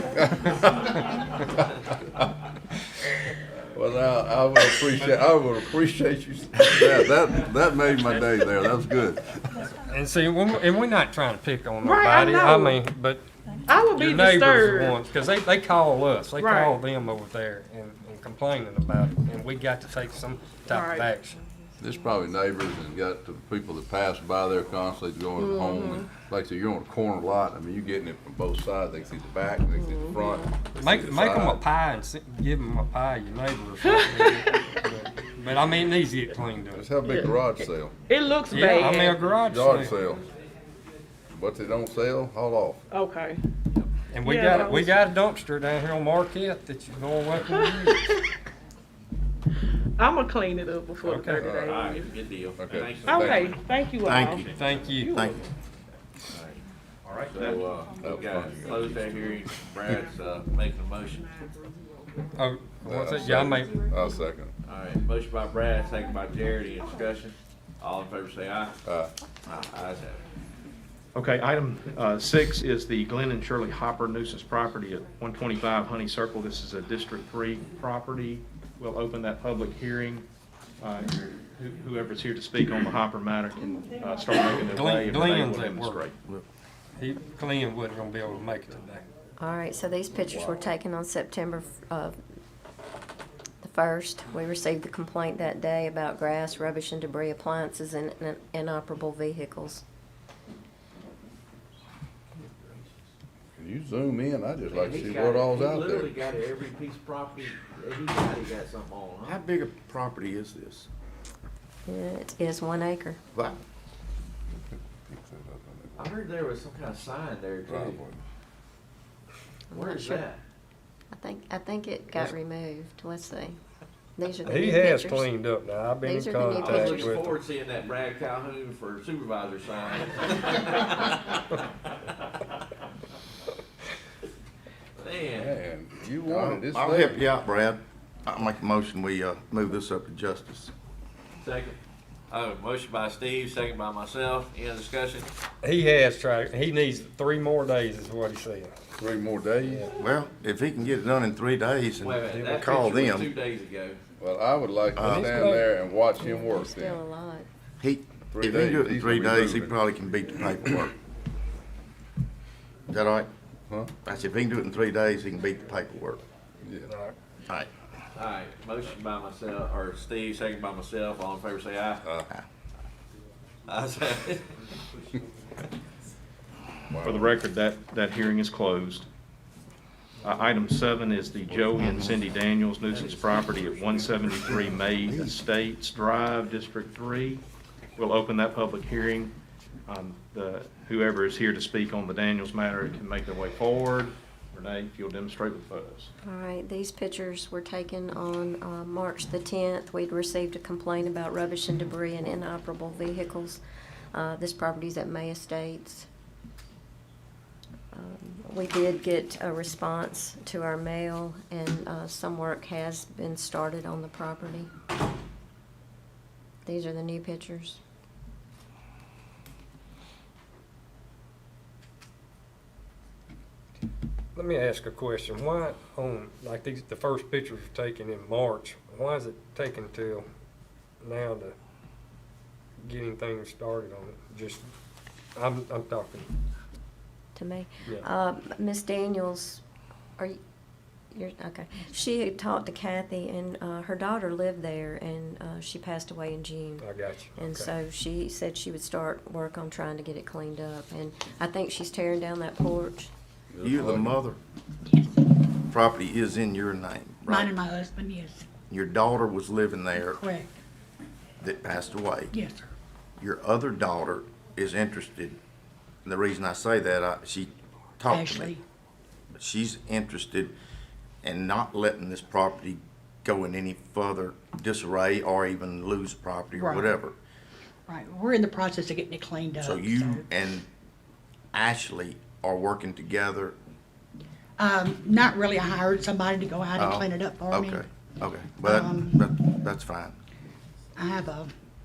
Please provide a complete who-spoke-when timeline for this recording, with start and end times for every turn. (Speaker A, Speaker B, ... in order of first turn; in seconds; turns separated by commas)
Speaker A: 0.1-1.6, Speaker A: 3.7-9.7, Speaker B: 9.9-13.2, Speaker C: 11.8-12.8, Speaker C: 13.7-15.0, Speaker B: 13.9-21.4, Speaker C: 16.4-16.8, Speaker C: 20.7-21.1, Speaker A: 21.8-31.6, Speaker D: 25.4-26.1, Speaker D: 29.8-30.5, Speaker B: 30.7-36.9, Speaker C: 33.8-34.6, Speaker A: 36.7-37.9, Speaker C: 37.0-37.4, Speaker C: 38.1-39.3, Speaker B: 38.5-40.0, Speaker A: 39.4-40.3, Speaker A: 41.3-42.8, Speaker C: 42.9-43.4, Speaker B: 44.1-48.2, Speaker C: 44.2-45.0, Speaker C: 47.5-48.2, Speaker C: 50.0-52.1, Speaker B: 51.0-51.4, Speaker A: 51.4-51.7, Speaker E: 51.6-53.6, Speaker A: 52.6-53.5, Speaker C: 53.0-55.4, Speaker F: 54.0-54.5, Speaker E: 54.5-54.8, Speaker B: 54.5-55.1, Speaker F: 55.1-55.5, Speaker E: 56.3-56.6, Speaker G: 57.0-57.6, Speaker E: 57.3-61.3, Speaker A: 58.0-59.0, Speaker B: 62.3-63.8, Speaker A: 62.8-64.5, Speaker E: 64.6-68.8, Speaker A: 68.8-69.1, Speaker E: 69.7-70.2, Speaker G: 71.1-80.2, Speaker G: 80.8-86.2, Speaker H: 84.0-85.3, Speaker B: 84.7-86.1, Speaker B: 87.0-89.0, Speaker D: 89.4-92.2, Speaker A: 90.2-90.7, Speaker D: 93.6-99.8, Speaker E: 102.4-102.8, Speaker A: 103.5-106.2, Speaker E: 104.6-109.4, Speaker F: 109.2-110.9, Speaker D: 111.8-113.2, Speaker F: 113.3-113.6, Speaker A: 114.5-116.1, Speaker E: 116.0-118.0, Speaker A: 117.7-118.2, Speaker D: 119.7-120.2, Speaker E: 119.7-120.4, Speaker D: 121.1-123.6, Speaker D: 124.2-125.3, Speaker B: 124.4-127.4, Speaker D: 126.0-127.2, Speaker E: 126.6-131.6, Speaker E: 135.0-135.6, Speaker A: 135.3-137.2, Speaker F: 136.3-140.7, Speaker E: 141.4-141.8, Speaker E: 142.3-145.3, Speaker B: 145.6-148.8, Speaker A: 149.0-149.9, Speaker B: 149.6-149.9, Speaker F: 149.9-153.3, Speaker E: 152.0-154.0, Speaker A: 154.2-157.0, Speaker F: 154.9-155.6, Speaker B: 155.0-155.7, Speaker D: 156.2-157.5, Speaker F: 157.8-160.9, Speaker A: 158.3-159.7, Speaker F: 162.9-163.3, Speaker A: 163.7-163.9, Speaker F: 164.0-166.2, Speaker A: 166.6-166.9, Speaker B: 166.9-167.1, Speaker E: 168.1-172.0, Speaker E: 173.7-174.5, Speaker A: 176.9-177.3, Speaker G: 177.0-179.1, Speaker G: 180.2-187.4, Speaker H: 181.6-182.1, Speaker F: 181.8-182.1, Speaker E: 182.9-184.1, Speaker F: 184.4-185.3, Speaker G: 188.0-189.3, Speaker G: 189.9-196.1, Speaker D: 196.2-203.6, Speaker D: 204.1-206.1, Speaker D: 207.9-214.7, Speaker D: 216.7-217.8, Speaker B: 224.3-230.2, Speaker B: 231.0-231.5, Speaker B: 232.8-234.7, Speaker B: 235.3-236.3, Speaker D: 237.3-239.6, Speaker D: 241.1-246.8, Speaker B: 246.8-247.7, Speaker D: 247.4-253.1, Speaker A: 253.5-254.2, Speaker F: 253.6-254.4, Speaker H: 254.8-255.2, Speaker F: 255.7-257.5, Speaker H: 257.2-258.5, Speaker F: 258.7-260.2, Speaker H: 260.0-260.5, Speaker F: 261.4-262.3, Speaker H: 262.3-262.7, Speaker F: 263.2-265.4, Speaker F: 266.0-268.5, Speaker H: 268.1-268.6, Speaker F: 269.4-270.5, Speaker F: 271.2-277.1, Speaker H: 276.5-276.9, Speaker H: 277.9-280.2, Speaker F: 279.6-280.7, Speaker F: 281.5-283.6, Speaker H: 284.6-287.8, Speaker F: 286.8-290.2, Speaker H: 288.6-289.2, Speaker H: 290.9-291.5